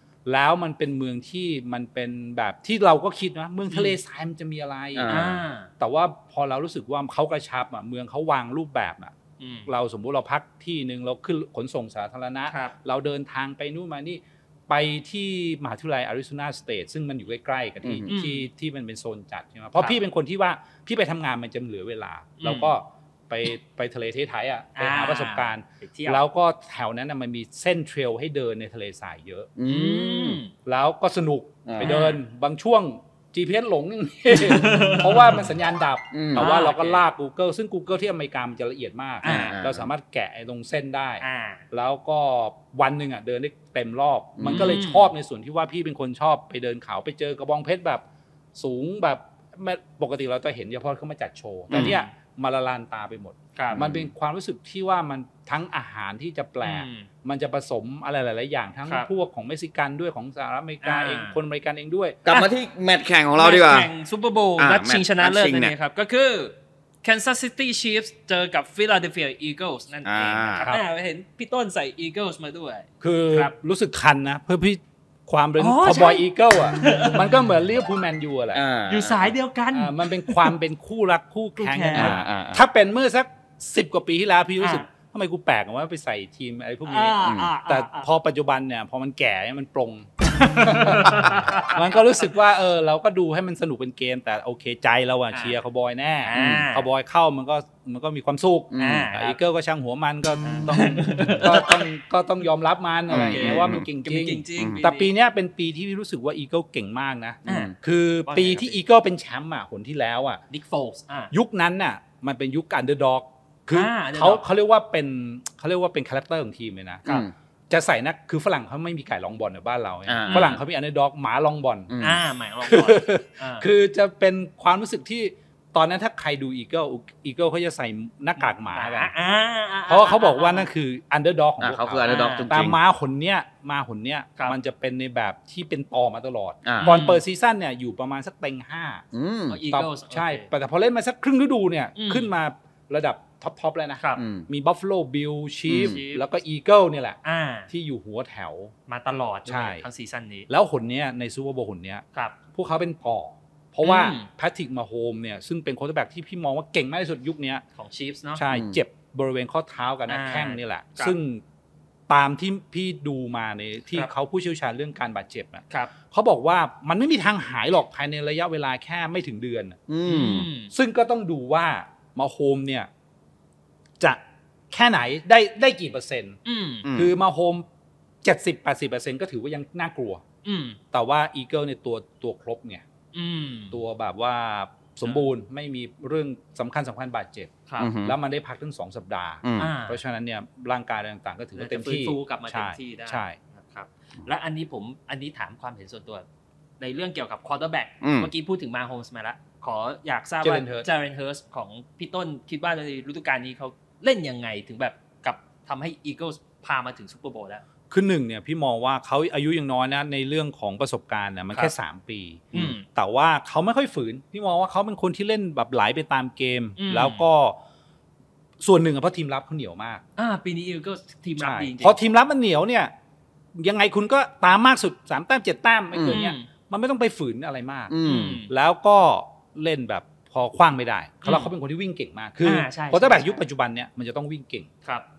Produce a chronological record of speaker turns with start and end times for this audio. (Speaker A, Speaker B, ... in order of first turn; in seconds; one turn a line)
Speaker A: 0.3-5.2
Speaker B: 4.9-5.4
Speaker C: 5.1-5.7
Speaker A: 5.8-9.1
Speaker C: 9.4-9.7
Speaker A: 9.7-29.5
Speaker C: 12.5-12.7
Speaker B: 17.8-18.1
Speaker C: 18.1-18.5
Speaker C: 22.4-22.7
Speaker C: 24.8-26.2
Speaker B: 29.6-30.4
Speaker C: 29.7-30.5
Speaker A: 30.7-48.0
Speaker B: 31.7-32.0
Speaker C: 31.8-32.2
Speaker C: 34.3-35.4
Speaker B: 36.1-36.5
Speaker C: 36.4-37.0
Speaker C: 39.2-39.5
Speaker B: 39.2-39.9
Speaker C: 41.2-41.6
Speaker B: 44.4-44.8
Speaker C: 44.5-45.1
Speaker A: 48.5-62.2
Speaker C: 51.7-52.1
Speaker C: 53.6-53.8
Speaker B: 53.7-54.1
Speaker C: 56.6-57.1
Speaker C: 60.8-61.4
Speaker B: 62.2-63.9
Speaker C: 63.4-73.5
Speaker B: 64.6-65.7
Speaker B: 70.0-70.7
Speaker A: 73.0-78.6
Speaker C: 75.6-77.3
Speaker B: 78.5-79.3
Speaker C: 78.9-80.5
Speaker A: 79.7-110.4
Speaker C: 81.6-82.2
Speaker B: 81.9-82.6
Speaker C: 84.6-84.9
Speaker C: 86.9-88.1
Speaker B: 87.2-87.5
Speaker C: 90.4-92.0
Speaker C: 96.2-96.9
Speaker B: 96.3-96.6
Speaker B: 98.7-99.1
Speaker C: 98.8-99.4
Speaker C: 100.5-101.9
Speaker B: 103.1-103.8
Speaker C: 103.1-105.1
Speaker B: 107.5-107.8
Speaker C: 107.5-108.8
Speaker C: 110.5-111.3
Speaker A: 111.3-117.0
Speaker C: 113.7-114.4
Speaker B: 117.1-117.3
Speaker A: 117.7-121.9
Speaker B: 120.1-120.6
Speaker C: 120.3-120.6
Speaker B: 121.9-122.2
Speaker C: 122.0-123.7
Speaker A: 122.7-129.1
Speaker C: 128.7-130.7
Speaker A: 129.9-139.0
Speaker B: 131.6-132.8
Speaker C: 132.0-132.5
Speaker B: 136.7-137.0
Speaker C: 136.8-137.2
Speaker B: 139.1-139.6
Speaker C: 139.5-140.5
Speaker A: 139.7-148.7
Speaker C: 142.0-142.3
Speaker B: 144.2-144.5
Speaker B: 145.7-146.0
Speaker C: 145.7-146.2
Speaker C: 147.2-147.7
Speaker C: 148.9-150.5
Speaker A: 149.5-149.8
Speaker A: 150.5-157.6
Speaker C: 153.8-154.3
Speaker C: 157.8-158.4
Speaker A: 158.4-161.4
Speaker B: 158.5-158.8
Speaker C: 160.1-161.2
Speaker A: 162.1-169.8
Speaker B: 169.9-170.5
Speaker C: 170.1-170.7
Speaker A: 170.7-172.9
Speaker A: 174.0-176.4
Speaker C: 176.4-176.9
Speaker B: 176.8-177.1
Speaker A: 176.9-177.7
Speaker A: 178.2-180.2
Speaker C: 180.4-180.8
Speaker A: 180.9-182.8
Speaker C: 183.1-183.8
Speaker A: 183.7-193.4
Speaker B: 187.8-188.2
Speaker B: 189.4-189.7
Speaker C: 189.6-190.0
Speaker C: 191.6-196.2
Speaker C: 196.8-207.6
Speaker B: 198.0-198.3
Speaker A: 200.4-200.9
Speaker A: 207.9-217.6
Speaker C: 212.5-212.8
Speaker C: 216.8-217.2
Speaker A: 218.6-220.0
Speaker C: 220.2-222.0
Speaker A: 221.4-222.9
Speaker A: 223.6-227.9
Speaker B: 225.9-226.2
Speaker C: 226.1-226.5
Speaker B: 227.9-228.4
Speaker C: 228.0-228.5
Speaker A: 228.5-234.7
Speaker C: 231.2-231.5
Speaker C: 232.4-233.4